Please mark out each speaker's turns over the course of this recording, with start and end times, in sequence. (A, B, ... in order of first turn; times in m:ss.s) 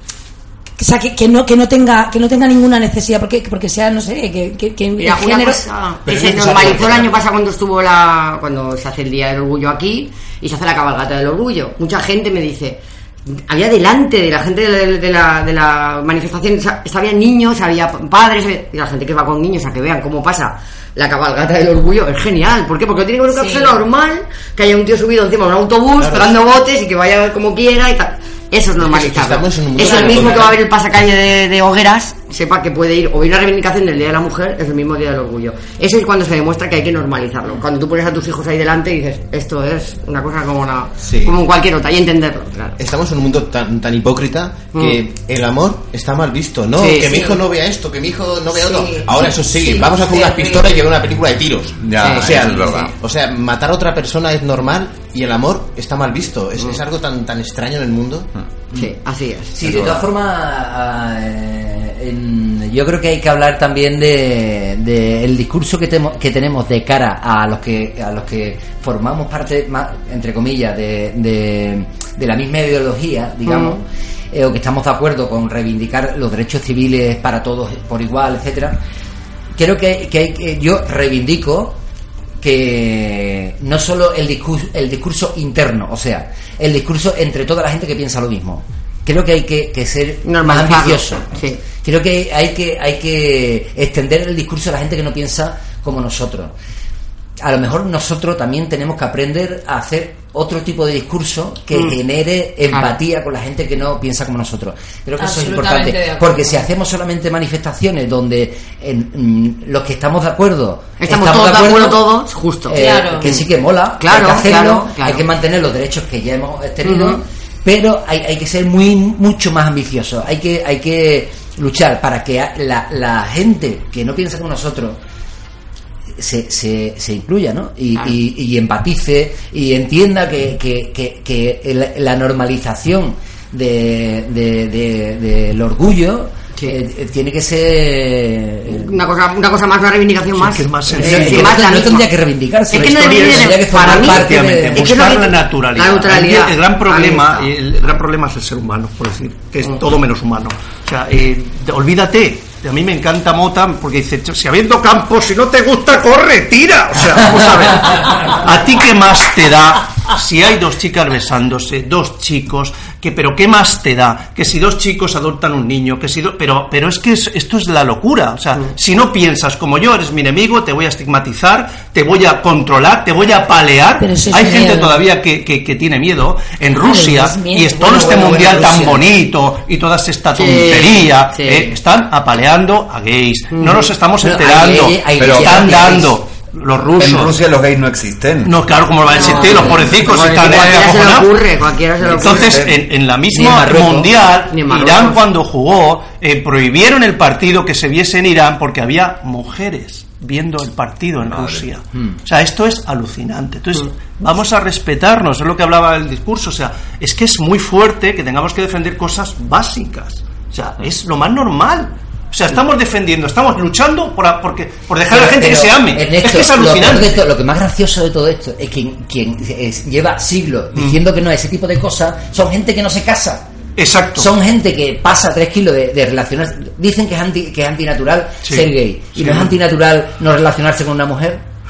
0:00.8-0:05.6 A
0:05.0-0:42.8 B
0:06.0-0:07.2 C
0:23.3-0:23.8 A
0:26.0-0:26.4 C
0:28.8-0:30.6 C
0:41.0-0:41.4 C
0:42.8-0:58.3 C
0:44.7-0:45.0 B
0:46.7-0:47.4 B
0:48.5-0:50.9 A
0:51.8-0:52.9 D
0:52.0-0:52.9 B
0:58.7-0:59.5 B
0:59.5-1:18.8 E
0:59.7-1:00.0 C
1:13.4-1:13.8 B
1:19.6-1:21.8 E
1:22.4-1:36.5 E
1:30.2-1:31.6 B
1:37.4-1:52.1 E
1:42.7-1:43.0 B
1:45.2-1:46.6 A
1:51.0-1:53.4 B
1:52.7-2:05.0 E
1:52.7-1:53.4 A
1:54.0-1:55.2 B
1:56.8-1:57.2 B
2:06.2-2:18.9 E
2:18.7-2:22.1 B
2:20.3-2:21.6 F
2:20.9-2:25.2 E
2:22.7-2:27.5 B
2:22.7-3:07.4 F
2:54.0-2:55.0 A
2:56.7-2:58.6 A
2:57.8-2:59.1 E
3:00.4-3:01.8 B
3:03.5-3:03.9 B
3:04.2-3:06.2 E
3:05.2-3:05.7 D
3:07.0-3:08.6 D
3:08.4-3:11.4 F
3:09.1-3:12.6 B
3:09.3-3:09.9 E
3:09.9-3:10.8 D
3:12.0-3:12.8 D
3:12.0-3:37.2 F
3:13.3-3:14.1 E
3:14.5-3:15.2 B
3:21.2-3:21.6 D
3:35.1-3:43.4 E
3:43.8-3:44.3 F
3:44.2-3:51.4 E
3:48.4-3:49.5 F